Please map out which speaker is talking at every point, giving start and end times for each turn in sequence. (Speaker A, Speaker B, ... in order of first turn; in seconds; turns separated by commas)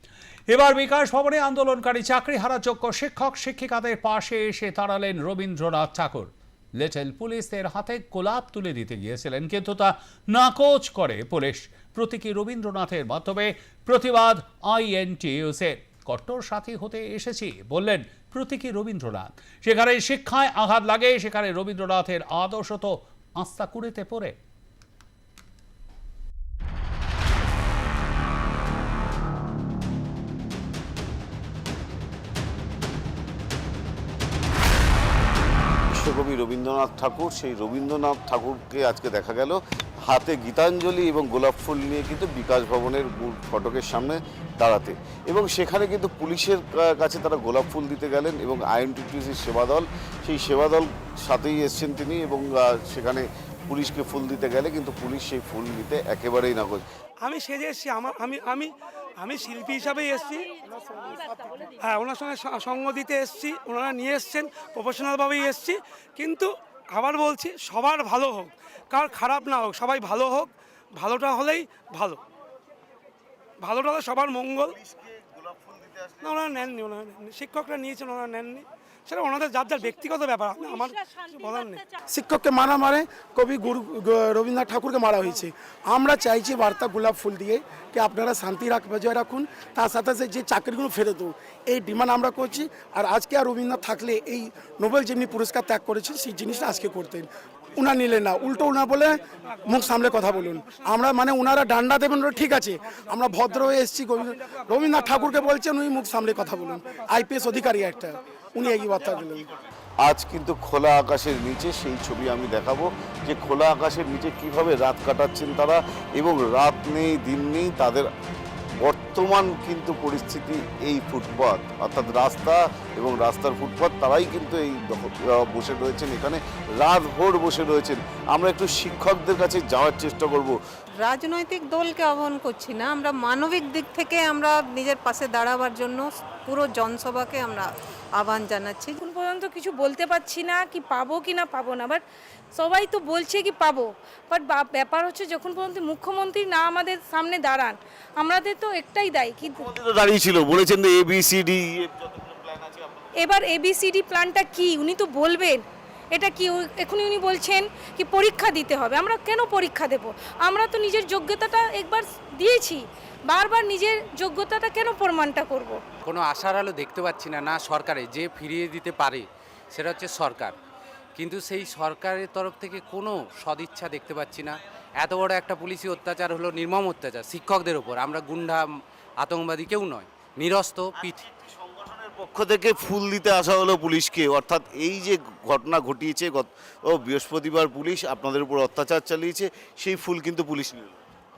Speaker A: 0.5-24.4, Speaker B: 35.9-56.8, Speaker C: 57.2-60.5, Speaker C: 61.8-72.2, Speaker C: 73.6-74.8, Speaker B: 74.8-76.2, Speaker C: 76.2-81.9, Speaker D: 82.1-109.5, Speaker C: 99.5-100.2, Speaker B: 110.0-118.1, Speaker B: 118.8-130.6, Speaker E: 131.0-139.0, Speaker F: 139.0-142.0, Speaker F: 142.6-149.7, Speaker B: 149.5-153.1, Speaker F: 153.2-165.8, Speaker G: 166.0-170.6, Speaker G: 171.2-178.7, Speaker G: 179.2-181.2, Speaker B: 181.1-191.0